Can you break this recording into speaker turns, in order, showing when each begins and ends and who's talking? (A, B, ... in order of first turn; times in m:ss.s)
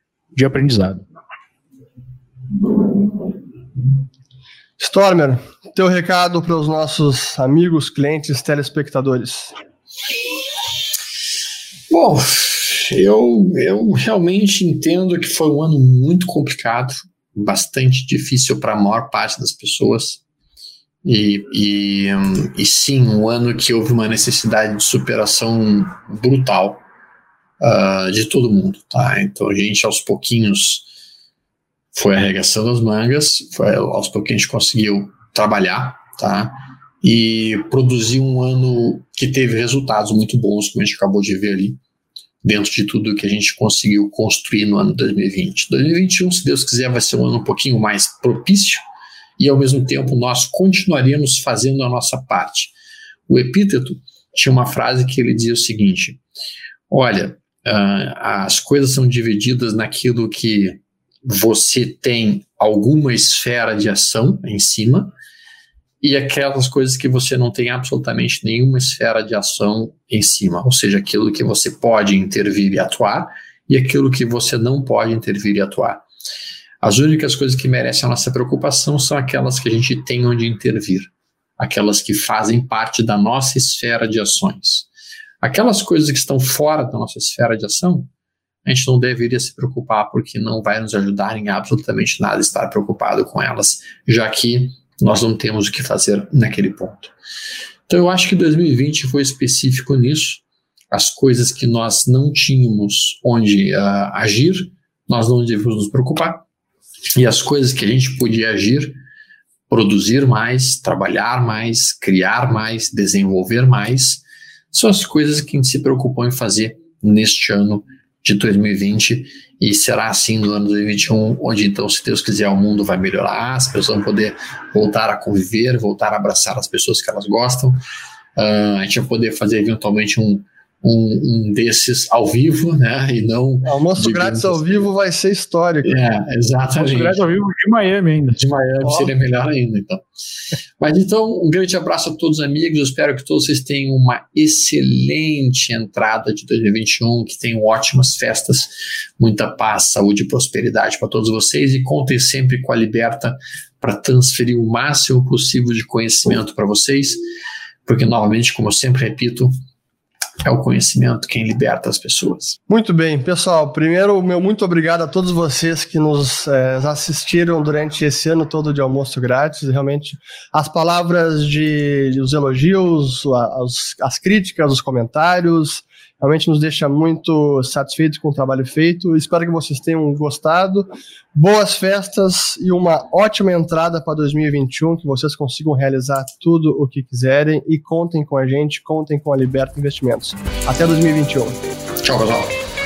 0:00.3-0:01.0 A
0:04.8-0:09.5 B
0:11.9-0:20.2 C
0:21.0-0:26.8 C
0:27.6-0:30.9 C
0:31.9-0:41.8 C
0:42.4-0:48.8 C
0:49.4-0:52.7 C
0:53.3-0:56.2 C
0:56.9-1:05.1 C
1:06.0-1:16.0 C
1:16.8-1:24.9 C
1:25.4-1:28.1 C
1:28.6-1:37.1 C
1:37.9-1:46.4 C
1:47.1-1:49.0 C
1:49.7-2:07.8 C
2:08.4-2:14.8 C
2:13.6-2:16.0 B
2:15.8-2:17.2 C
2:16.8-2:18.4 A
2:18.4-2:20.0 C
2:18.8-2:19.1 B
2:20.8-2:37.2 C
2:37.8-2:39.5 C
2:40.4-2:42.6 C
2:42.7-3:11.6 B
3:12.0-3:12.5 C